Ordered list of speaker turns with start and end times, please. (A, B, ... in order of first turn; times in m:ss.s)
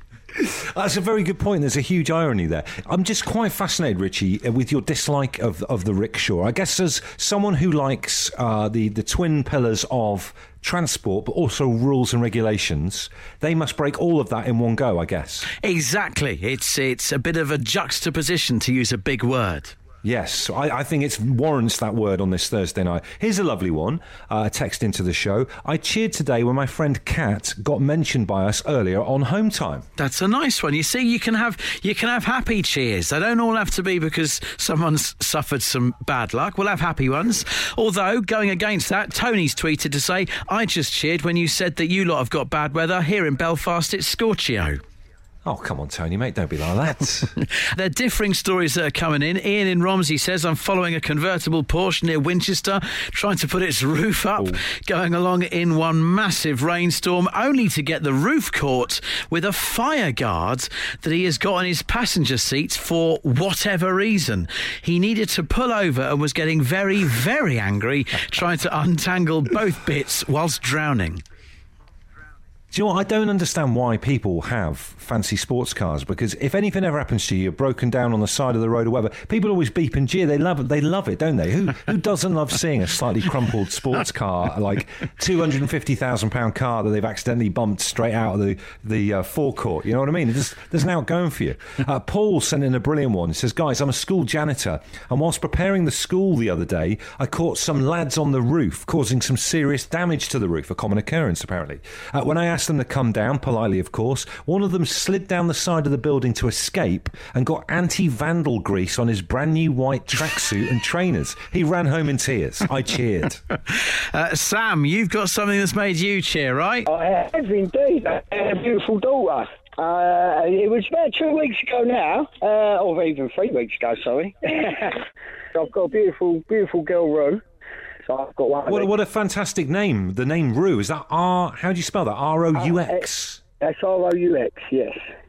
0:00.3-0:15.5 A
0:15.6-0:19.8 B
0:20.0-0:29.8 A
0:30.0-0:44.8 B
0:45.4-0:47.4 A
0:47.6-1:11.2 B
1:12.7-1:53.4 A
1:53.7-1:56.9 B
1:56.9-2:05.0 C
2:05.5-2:07.4 C
2:08.1-2:08.9 C
2:08.7-2:13.4 A
2:12.6-2:13.0 C
2:13.6-2:15.0 C